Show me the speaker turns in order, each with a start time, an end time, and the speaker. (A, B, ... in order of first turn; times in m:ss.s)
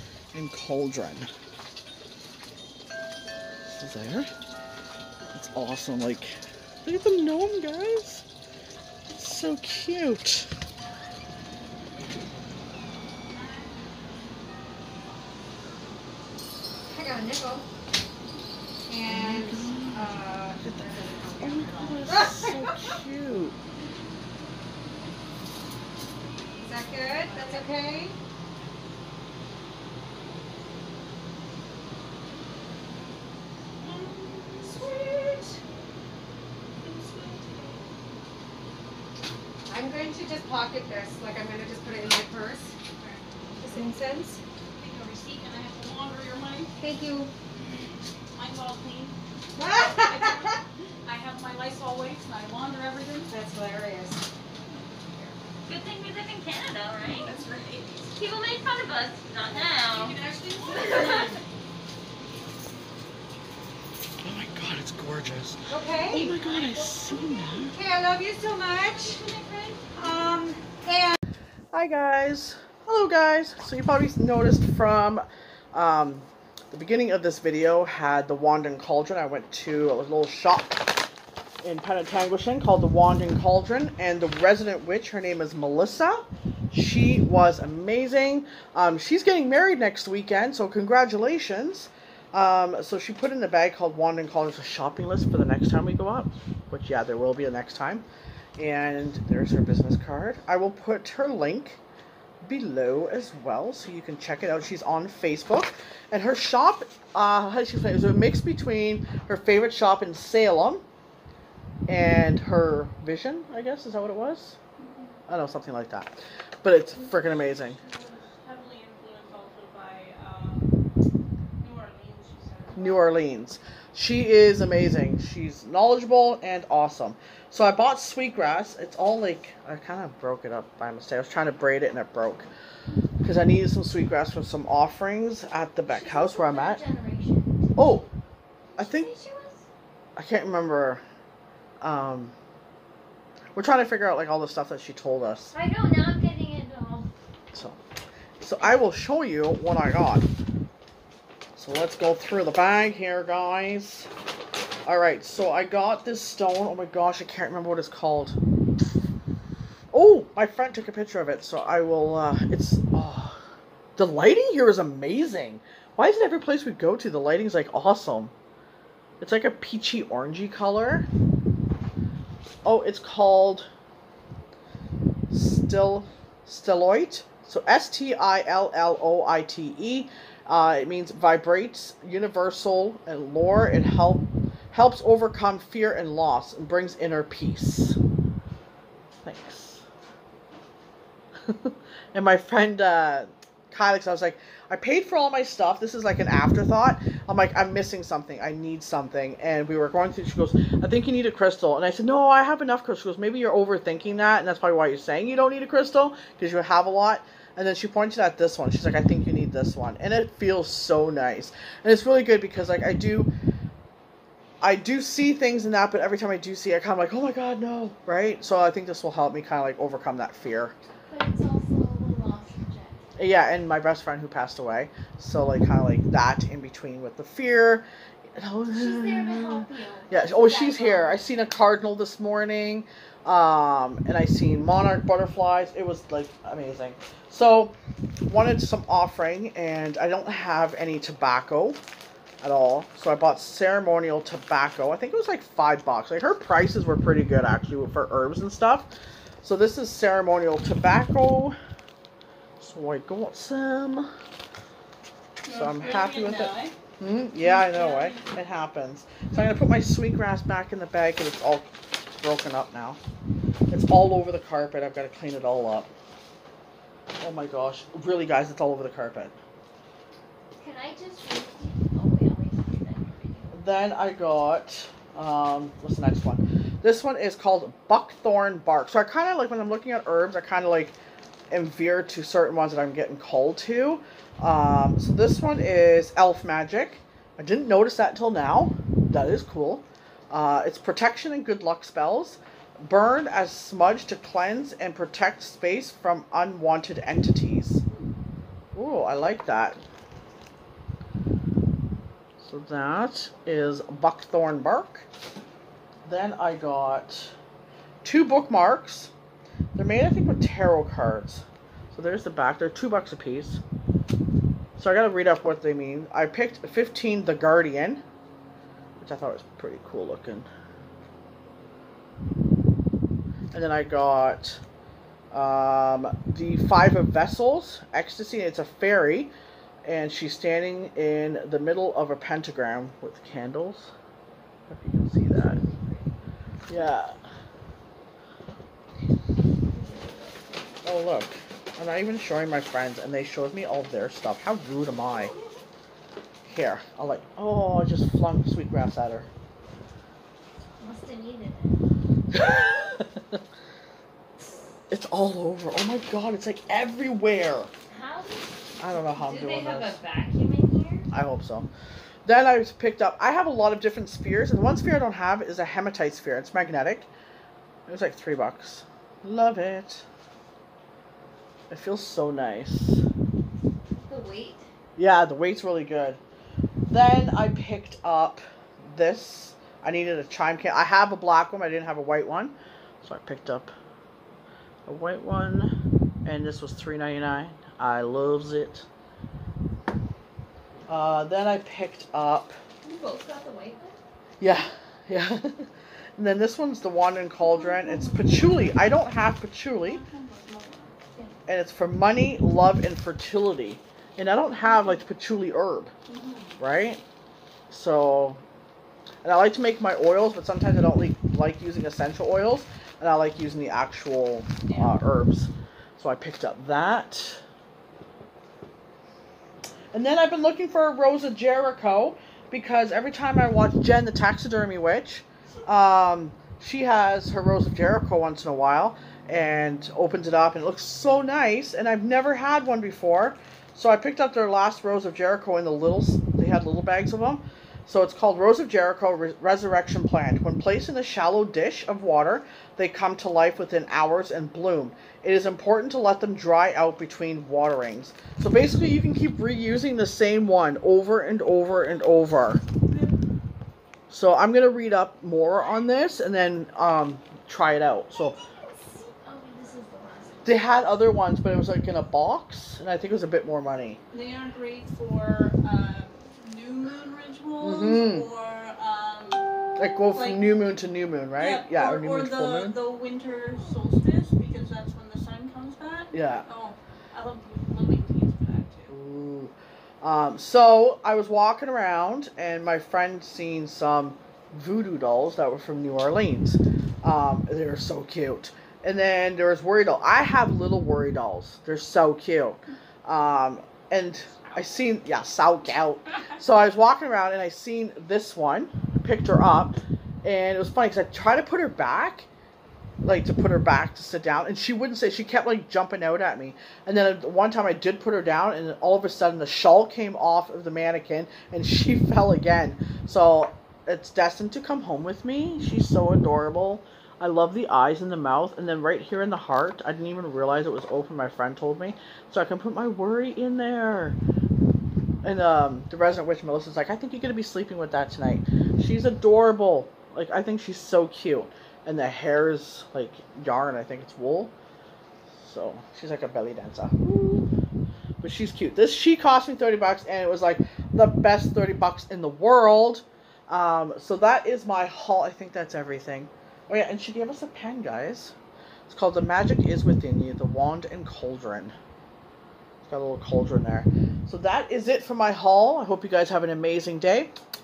0:00.3-0:01.3 A
0:03.6-0:04.3 A
0:05.3-0:08.2 A
0:09.1-0:10.5 A
0:16.9-0:17.7 B
0:18.9-0:22.9 B
0:19.0-0:23.6 A
0:26.6-0:28.1 B
0:33.8-0:35.6 C
0:36.8-0:37.9 C
0:39.7-0:42.7 B
0:43.0-0:43.2 C
0:43.6-0:44.4 B
0:44.8-0:46.7 C
0:46.8-0:47.3 B
0:48.3-0:49.2 C
0:49.6-0:50.5 B
0:49.9-0:53.3 C
0:53.3-0:54.2 B
0:55.7-0:57.4 D
0:57.0-0:58.1 C
0:58.1-1:00.2 D
0:59.5-1:01.4 C
1:00.8-1:01.4 D
1:04.2-1:07.8 A
1:05.7-1:06.2 B
1:06.1-1:07.5 C
1:07.6-1:09.2 B
1:08.9-1:09.9 C
1:09.9-1:11.2 B
1:11.7-1:20.9 A
1:21.6-1:38.0 A
1:38.6-1:41.8 A
1:42.4-1:50.8 A
1:51.9-1:54.6 A
1:54.8-1:55.1 C
1:55.3-1:57.8 A
1:56.9-2:00.8 C
2:01.6-2:03.2 C
2:02.7-2:12.5 A
2:13.2-2:16.8 A
2:15.8-2:17.8 D
2:17.7-2:18.1 A
2:18.7-2:19.6 D
2:18.8-2:19.1 A
2:20.2-2:21.0 A
2:21.8-2:22.3 A
2:23.5-2:25.5 A
2:25.5-2:27.1 D
2:27.5-2:27.8 A
2:28.4-2:30.2 A
2:31.6-2:34.1 A
2:34.8-2:38.4 A
2:39.9-2:43.4 A
2:44.0-2:48.3 A
2:49.2-2:51.1 A
2:52.6-2:53.7 A
2:55.3-3:08.0 A
3:09.2-3:09.8 A
3:11.4-3:33.3 A
3:34.6-3:40.7 A
3:41.1-3:43.0 D
3:43.2-3:57.7 A
3:48.7-3:51.2 D
3:58.2-4:01.8 A
4:02.4-4:08.9 A
4:09.4-4:11.6 A
4:12.6-4:14.1 A
4:15.4-4:16.7 C
4:15.5-4:23.0 A
4:17.3-4:18.3 C
4:23.7-4:25.9 A
4:27.2-4:29.3 A
4:30.6-4:33.6 D
4:33.5-4:40.9 A
4:41.5-4:57.8 A
4:58.7-4:59.8 A
5:02.4-5:05.1 A
5:06.0-5:07.3 A
5:08.0-5:09.1 A
5:09.7-5:13.6 A
5:14.8-5:18.0 A
5:19.0-5:20.5 A
5:23.5-5:24.6 A
5:25.3-5:29.3 A
5:29.8-5:33.9 A
5:34.7-5:35.6 A
5:35.3-5:37.0 D
5:36.7-5:37.2 A
5:39.6-5:40.8 D
5:40.8-5:45.3 A
5:46.4-5:49.3 A
5:50.8-5:51.8 D
5:52.3-5:53.3 A
5:54.9-5:57.7 A
5:57.9-6:01.1 D
5:58.8-6:00.0 A
6:01.1-6:01.7 A
6:02.2-6:07.1 A
6:07.9-6:10.0 A
6:11.7-6:13.0 A
6:14.0-6:14.6 D
6:15.0-6:16.2 A
6:16.9-6:23.7 A
6:24.8-6:25.7 A
6:26.2-6:28.8 A
6:30.9-6:32.6 A
6:32.8-6:34.0 D
6:34.4-6:40.0 A
6:37.4-6:39.0 C
6:39.7-6:41.0 C
6:41.4-6:45.9 A
6:46.1-6:46.6 C
6:46.6-6:47.0 A
6:47.7-6:48.4 A
6:49.2-6:57.4 A
6:54.7-6:54.9 C
6:59.9-7:32.6 A
7:32.8-7:33.1 C
7:34.1-7:38.4 A
7:38.1-7:40.6 D
7:40.4-7:44.0 A
7:44.1-7:49.4 C
7:47.6-7:48.3 A
7:49.8-7:52.8 A
7:50.1-7:50.4 C
7:51.4-7:58.9 C
7:56.1-7:56.4 A
7:58.9-8:22.3 A
8:23.0-8:44.2 A
8:45.2-8:54.5 A
8:55.4-8:57.5 A
8:58.2-9:08.3 A
9:08.9-9:11.7 A
9:12.8-9:17.3 A